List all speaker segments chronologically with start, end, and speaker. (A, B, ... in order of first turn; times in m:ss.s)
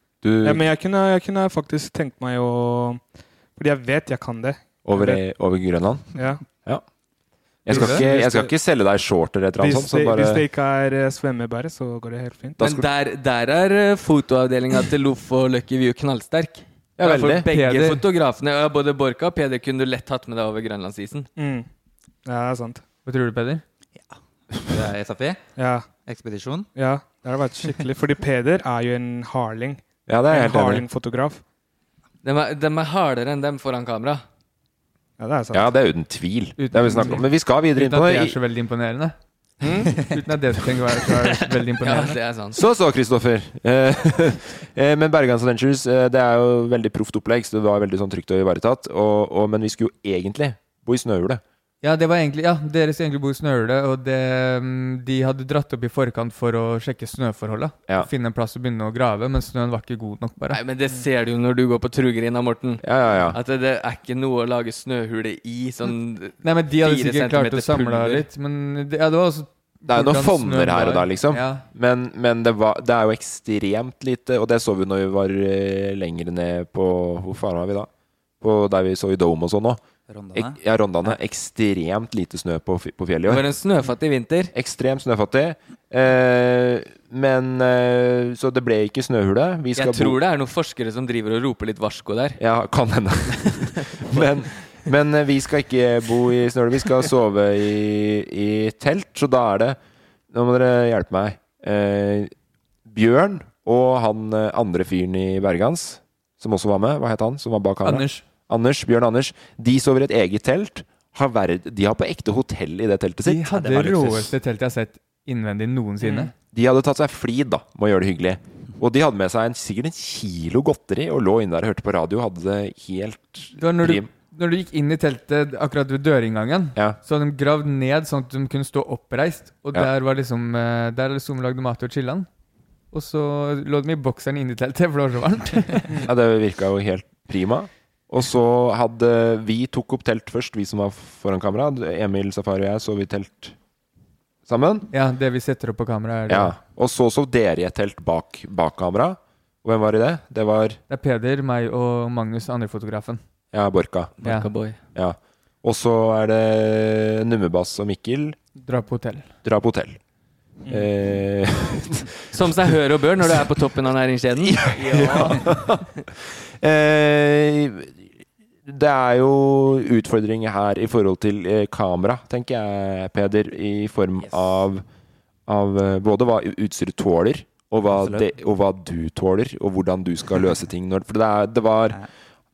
0:00.2-0:00.6 A
0:00.4-0:03.0 B
0:03.6-0:05.2 B
0:04.8-0:06.8 A
0:06.2-0:06.4 B
0:07.6-0:10.4 A
0:07.7-0:08.0 C
0:07.7-0:08.5 B
0:09.6-0:12.6 B
0:12.6-0:12.9 A
0:12.6-0:21.3 D
0:17.0-0:17.5 A
0:17.4-0:18.0 C
0:21.4-0:21.7 B
0:22.2-0:22.8 B
0:23.0-0:23.6 C
0:24.0-0:25.4 E
0:25.6-0:25.9 B
0:26.0-0:26.7 E
0:26.7-0:31.4 B
0:30.1-0:30.8 A
0:32.2-0:34.2 D
0:35.2-0:35.7 B
0:35.5-0:38.4 A
0:36.6-0:39.2 C
0:39.8-0:42.2 C
0:41.8-0:42.6 D
0:42.5-0:51.4 A
0:51.8-1:00.6 C
1:00.5-1:08.3 D
1:02.8-1:03.4 A
1:06.4-1:11.6 C
1:09.9-1:17.9 A
1:18.4-1:19.8 A
1:20.1-1:21.1 E
1:20.3-1:23.5 A
1:23.3-1:24.5 D
1:24.5-1:30.2 A
1:29.8-1:32.4 D
1:32.4-1:39.8 A
1:40.3-1:42.3 A
1:42.8-1:53.4 A
1:47.8-1:48.2 C
1:53.2-1:56.3 C
1:53.5-1:54.4 E
1:56.0-1:56.3 E
1:56.5-2:04.1 A
2:03.6-2:12.3 C
2:12.9-2:15.9 C
2:16.0-2:23.6 A
2:24.5-2:24.9 A
2:24.9-2:26.5 C
2:26.3-2:30.8 A
2:30.9-2:33.2 C
2:33.5-2:34.1 A
2:34.2-2:34.8 D
2:34.9-2:38.4 A
2:38.6-2:39.3 C
2:39.4-2:40.0 A
2:40.7-2:42.1 A
2:42.3-2:45.6 D
2:44.4-2:45.8 A
2:46.6-2:48.1 A
2:48.6-2:54.8 A
2:55.5-3:02.0 A
2:57.9-2:58.3 E